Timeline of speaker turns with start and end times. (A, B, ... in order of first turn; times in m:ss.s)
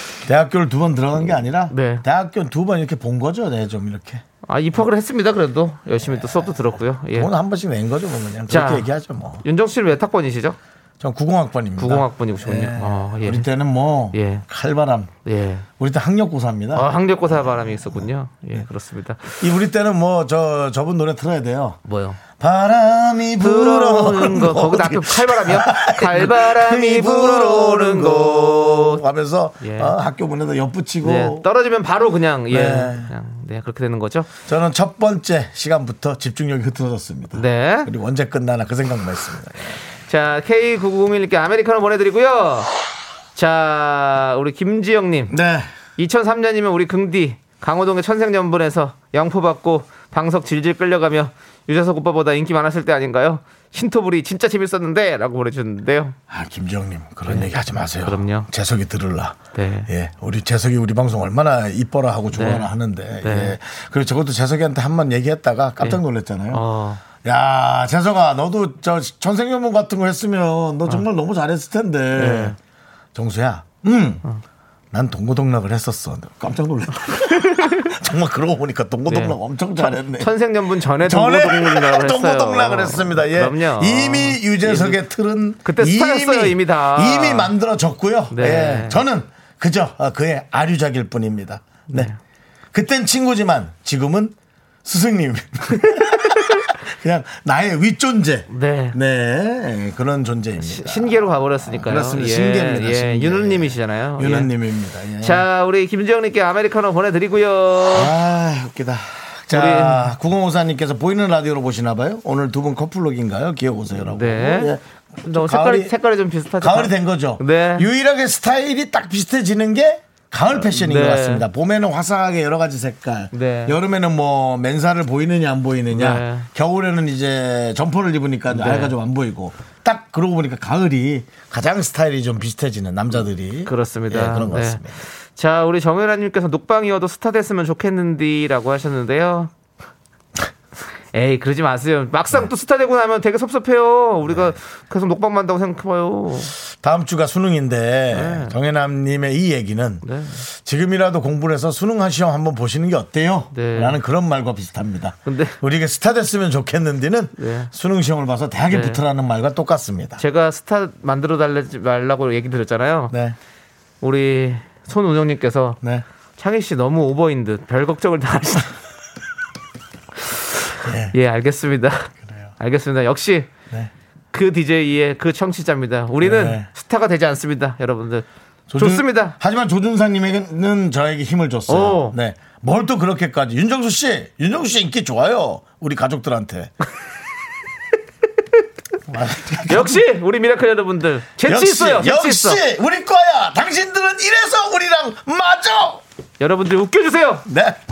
0:00.3-0:04.2 A
0:01.7-0:02.0 B
0:04.5-0:07.3 B
0:06.1-0:06.4 A
0:07.1-0:09.4 A
0:08.5-0:08.9 B
0:09.4-0:10.6 B
0:11.0-0:15.1 A
0:11.8-0:13.5 B
0:14.1-0:14.4 B
0:15.3-0:15.7 B
0:15.8-0:16.9 A
0:16.8-0:19.4 B
0:19.4-0:21.8 A
0:21.9-0:22.2 B
0:22.4-0:31.4 A
0:23.4-0:29.0 B
0:29.6-0:29.9 B
0:31.0-0:34.4 B
0:32.5-0:33.1 A
0:34.4-0:39.8 A
0:37.4-0:37.9 B
0:40.1-0:42.7 B
0:43.4-0:45.3 B
0:45.3-0:45.7 A
0:46.0-0:56.2 B
0:56.3-1:06.6 A
0:57.3-0:58.5 B
0:59.6-0:59.9 B
1:02.3-1:02.7 B
1:03.2-1:03.6 B
1:06.5-1:07.0 B
1:07.2-1:12.6 A
1:12.2-1:12.6 B
1:13.1-1:14.2 A
1:14.9-1:20.3 A
1:17.5-1:17.8 B
1:19.1-1:25.0 B
1:21.0-1:32.1 A
1:25.6-1:27.5 B
1:28.3-1:29.0 B
1:31.9-1:32.2 B
1:32.7-1:45.5 A
1:36.2-1:36.6 B
1:38.5-1:39.0 B
1:40.6-1:44.5 B
1:45.2-1:48.1 B
1:47.9-1:55.9 A
1:49.5-1:50.1 B
1:54.0-1:54.7 B
1:55.3-1:57.9 B
1:56.6-2:15.0 A
2:00.6-2:01.4 B
2:03.3-2:03.8 B
2:05.9-2:06.5 B
2:08.5-2:08.9 B
2:13.7-2:14.8 B
2:15.4-2:19.5 B
2:21.1-2:26.5 B
2:24.3-2:24.6 A
2:26.7-2:30.0 A
2:28.1-2:28.6 B
2:30.0-2:30.4 B
2:30.6-2:40.2 A
2:33.5-2:34.0 B
2:35.3-2:35.6 B
2:37.4-2:37.7 B
2:38.7-2:39.0 B
2:40.2-2:43.1 B
2:43.1-2:43.4 A
2:44.0-2:45.8 B
2:46.4-2:48.7 B
2:50.8-2:51.2 A
2:51.1-2:53.5 B
2:54.3-2:58.3 B
2:56.2-2:56.7 A
2:58.7-3:06.7 A
2:58.8-2:59.4 B
3:01.7-3:02.2 B
3:09.1-3:10.0 A
3:09.7-3:12.6 B
3:11.4-3:16.0 A
3:16.4-3:17.4 B
3:17.5-3:17.8 A